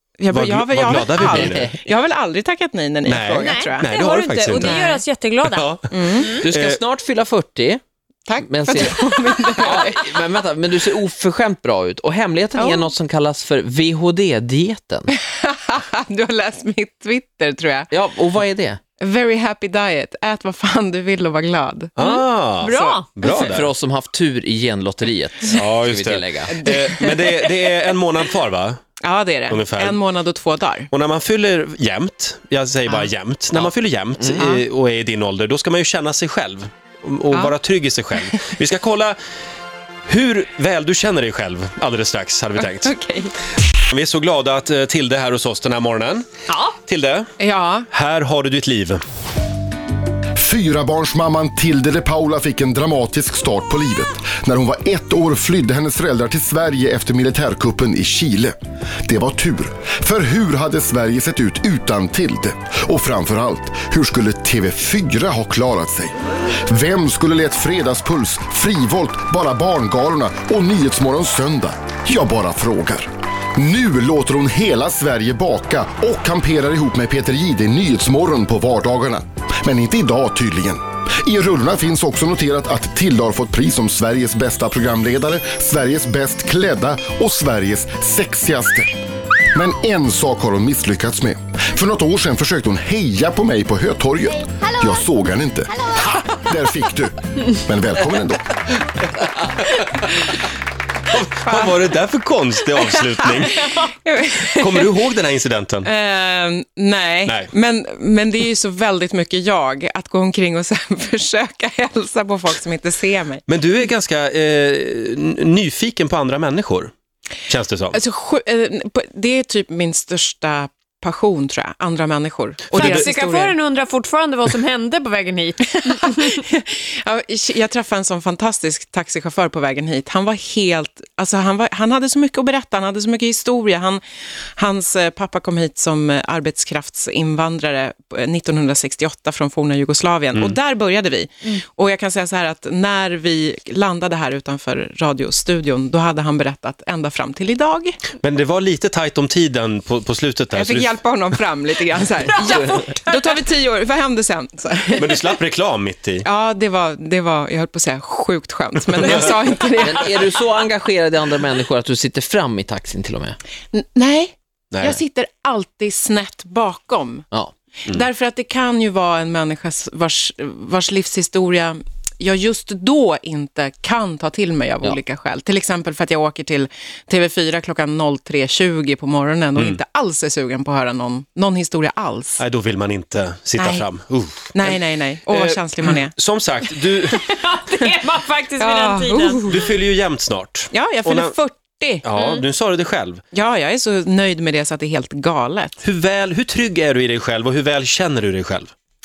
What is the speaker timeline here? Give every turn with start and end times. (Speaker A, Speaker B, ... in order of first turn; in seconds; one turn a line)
Speaker A: 0.2-5.0
Speaker B: 0.3-1.8
Speaker C: 1.2-1.9
Speaker B: 3.1-4.8
Speaker D: 3.4-6.4
Speaker B: 5.4-6.8
Speaker A: 5.9-6.4
Speaker C: 6.4-7.8
Speaker A: 8.3-10.2
Speaker C: 8.4-15.1
Speaker A: 12.5-12.9
Speaker A: 15.1-18.0
Speaker C: 17.9-18.8
Speaker A: 19.0-21.9
Speaker B: 22.0-23.7
Speaker D: 22.0-23.1
Speaker A: 22.7-23.0
Speaker C: 23.2-26.6
Speaker B: 25.5-28.8
Speaker A: 26.5-27.6
Speaker A: 29.0-30.9
Speaker B: 29.5-30.0
Speaker B: 30.9-39.2
Speaker C: 33.5-34.4
Speaker B: 40.1-42.9
Speaker A: 42.6-43.3
Speaker B: 43.9-46.3
Speaker D: 46.5-46.7
Speaker B: 46.8-47.3
Speaker A: 47.4-47.9
Speaker B: 47.9-49.0
Speaker E: 50.4-66.1
Speaker E: 66.7-88.9
Speaker E: 89.5-98.5
Speaker B: 99.8-100.1
Speaker B: 101.1-103.6
Speaker A: 101.5-101.8
Speaker A: 103.1-105.0
Speaker B: 104.6-105.9
Speaker A: 105.8-113.4
Speaker B: 107.2-107.5
Speaker B: 113.5-116.9
Speaker B: 117.5-118.0
Speaker A: 117.9-123.6
Speaker B: 122.7-123.1
Speaker D: 122.7-126.3
Speaker A: 125.8-134.0
Speaker A: 134.6-148.0
Speaker B: 148.2-151.0
Speaker A: 150.5-155.3
Speaker C: 152.5-152.8
Speaker D: 152.6-153.2
Speaker B: 155.0-156.3
Speaker A: 156.2-160.6
Speaker B: 158.9-159.3
Speaker C: 159.8-163.4
Speaker A: 163.7-167.3
Speaker B: 164.7-165.0
Speaker A: 167.9-182.4
Speaker B: 182.4-187.2
Speaker A: 183.6-183.8
Speaker A: 184.5-186.2
Speaker D: 187.1-189.4
Speaker A: 188.6-189.8
Speaker B: 189.4-191.3
Speaker A: 190.7-192.1
Speaker B: 192.0-193.2
Speaker D: 192.2-192.4
Speaker A: 193.3-195.8
Speaker B: 195.8-198.7